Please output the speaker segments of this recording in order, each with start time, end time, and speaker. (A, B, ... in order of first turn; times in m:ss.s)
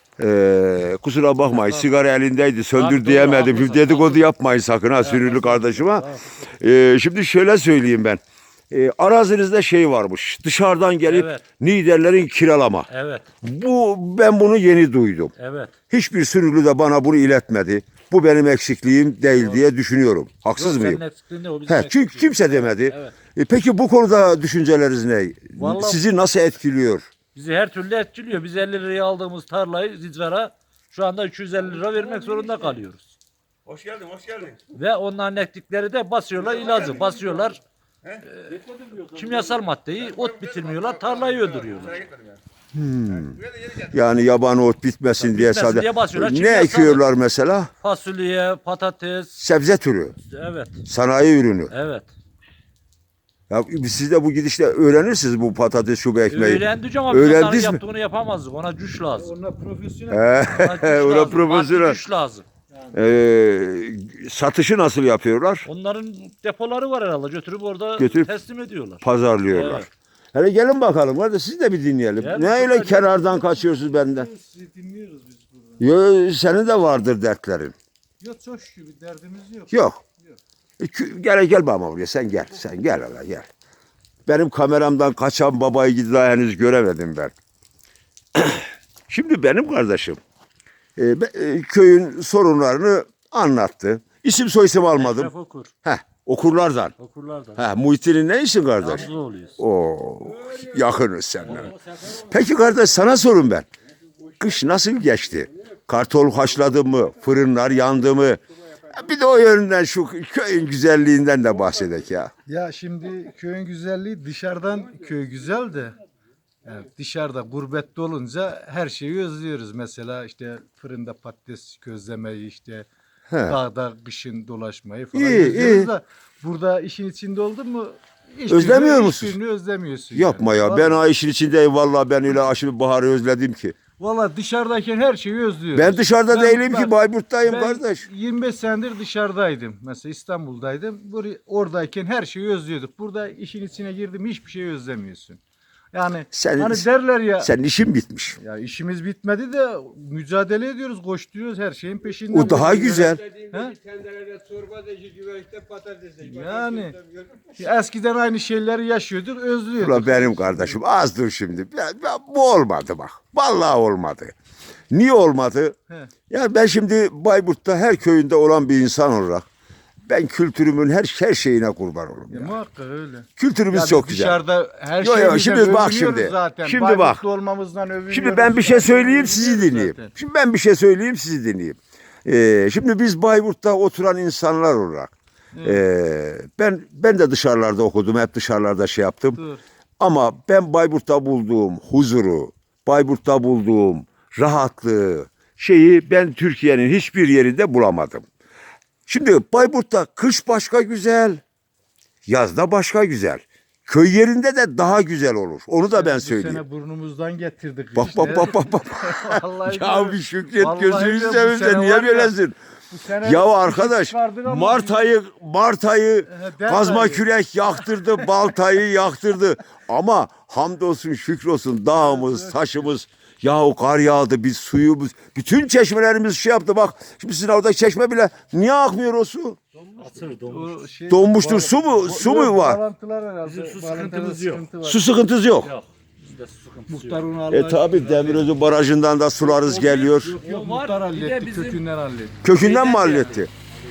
0:00.2-0:12.9 A
0:01.5-0:01.9 B
0:02.8-0:04.3 B
0:05.0-0:06.2 B
0:11.0-0:11.4 B
0:12.9-0:13.3 B
0:13.4-0:15.3 A
0:15.4-0:15.8 B
0:15.9-0:21.0 A
0:19.3-0:19.6 B
0:20.5-0:23.1 B
0:21.7-0:27.1 A
0:25.6-0:26.0 B
0:27.3-0:33.1 B
0:33.7-0:34.6 C
0:34.7-0:37.6 B
0:38.6-0:39.3 C
0:39.1-0:42.0 B
0:41.1-0:41.4 C
0:42.0-0:42.4 C
0:42.7-0:47.7 A
0:45.2-0:47.0 B
0:47.8-0:49.3 B
0:49.4-0:50.2 A
0:50.2-0:50.8 B
0:50.8-0:51.7 A
0:51.7-0:52.1 B
0:53.5-0:57.8 A
0:56.3-0:59.3 B
0:59.1-1:00.3 D
1:00.1-1:02.0 A
1:00.4-1:02.4 B
1:02.9-1:05.6 A
1:05.6-1:09.9 B
1:08.0-1:08.3 A
1:09.0-1:14.3 A
1:12.2-1:13.2 B
1:13.4-1:15.8 D
1:15.8-1:17.7 A
1:18.2-1:20.4 D
1:19.7-1:20.0 A
1:20.8-1:23.5 A
1:24.3-1:27.3 A
1:28.3-1:30.2 A
1:31.0-1:35.3 A
1:34.9-1:35.7 B
1:35.8-1:36.9 A
1:37.0-1:37.7 B
1:37.6-1:43.7 A
1:38.8-1:39.6 B
1:41.4-1:41.8 B
1:44.4-1:52.3 A
1:52.4-1:56.0 D
1:56.6-2:02.9 D
2:03.3-2:03.6 A
2:03.4-2:11.0 D
2:05.1-2:05.9 A
2:08.5-2:09.4 A
2:10.1-2:13.8 A
2:14.0-2:25.4 D
2:15.7-2:18.1 A
2:25.9-2:27.5 D
2:26.3-2:26.8 A
2:27.4-2:28.4 A
2:28.4-2:33.8 D
2:32.3-2:33.2 A
2:33.4-2:36.6 C
2:36.2-2:37.0 D
2:37.5-2:40.8 D
2:39.8-2:44.4 A
2:44.9-2:45.8 A
2:46.3-2:49.4 A
2:50.1-2:52.6 A
2:52.3-3:00.1 D
2:53.4-2:54.4 A
2:55.0-2:57.2 A
2:58.1-3:05.1 A
3:05.5-3:05.8 D
3:05.6-3:09.4 A
3:10.0-3:18.2 A
3:19.1-3:21.4 A
3:22.2-3:26.6 A
3:25.9-3:32.3 D
3:28.0-3:32.6 A
3:32.9-3:35.1 D
3:33.2-3:49.6 A
3:36.3-3:37.2 D
3:42.0-3:42.9 D
3:49.9-3:50.8 B
3:50.3-3:55.2 D
3:51.1-3:52.8 A
3:53.4-3:54.7 B
3:54.8-3:55.7 A
3:55.6-3:57.2 B
3:56.9-3:58.5 D
3:57.5-4:00.4 A
3:59.4-4:02.4 D
3:59.6-4:01.8 B
4:02.4-4:03.5 A
4:02.4-4:03.5 B